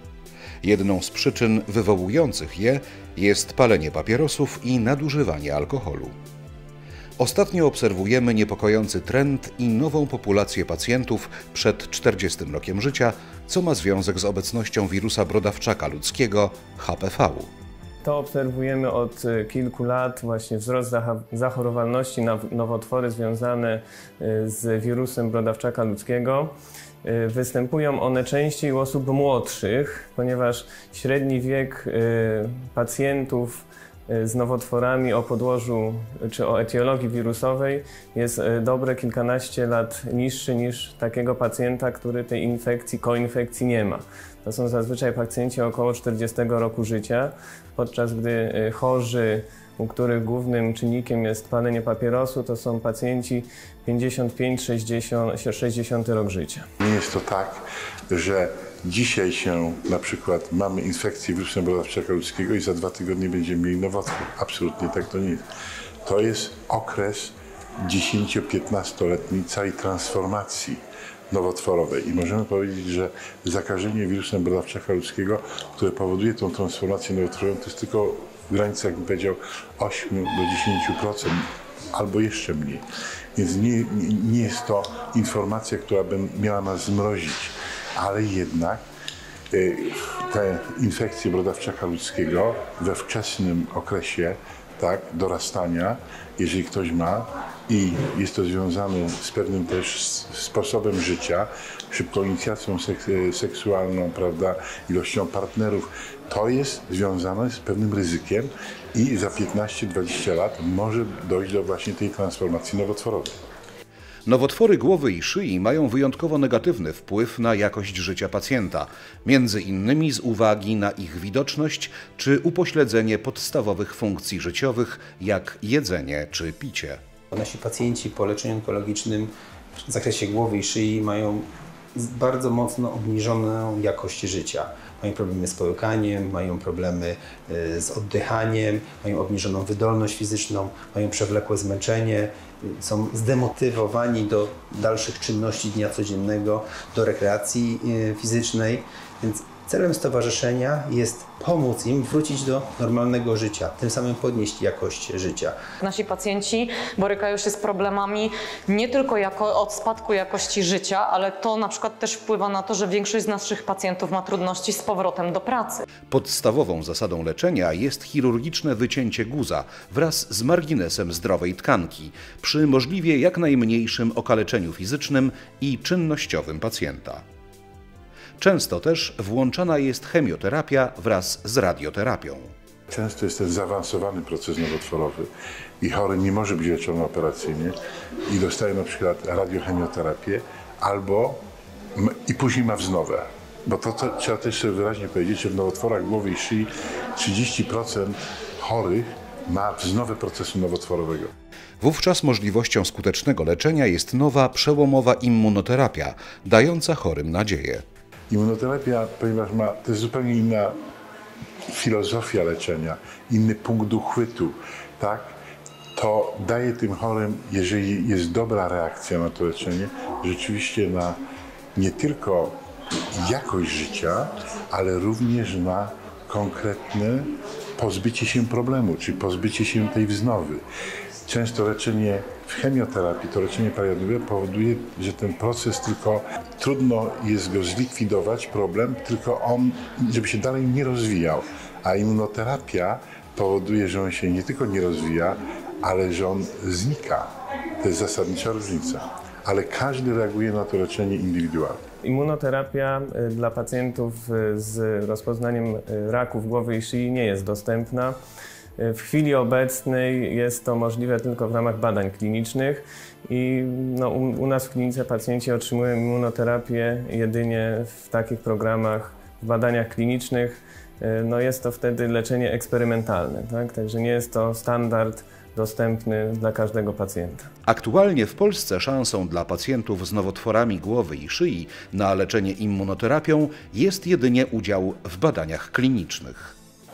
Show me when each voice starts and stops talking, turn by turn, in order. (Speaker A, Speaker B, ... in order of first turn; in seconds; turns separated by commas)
Speaker A: 0.6-6.1, Speaker A: 7.2-17.5, Speaker B: 18.0-26.5, Speaker B: 27.0-56.7, Speaker C: 56.8-65.4, Speaker C: 66.0-82.8, Speaker C: 83.3-88.8, Speaker C: 89.5-113.4, Speaker A: 114.3-127.0, Speaker D: 127.3-129.3, Speaker D: 129.9-155.6, Speaker E: 155.8-165.8, Speaker A: 166.1-177.2, Speaker A: 178.4-182.5, Speaker C: 182.9-185.3, Speaker C: 185.8-191.4, Speaker C: 191.9-201.3, Speaker A: 201.8-207.8, Speaker C: 208.3-210.8, Speaker C: 211.7-215.4, Speaker C: 215.9-221.2, Speaker C: 221.8-222.6, Speaker C: 223.1-230.6, Speaker C: 231.2-247.3, Speaker C: 247.8-251.8, Speaker B: 252.0-258.1, Speaker B: 258.8-277.5, Speaker A: 277.7-286.5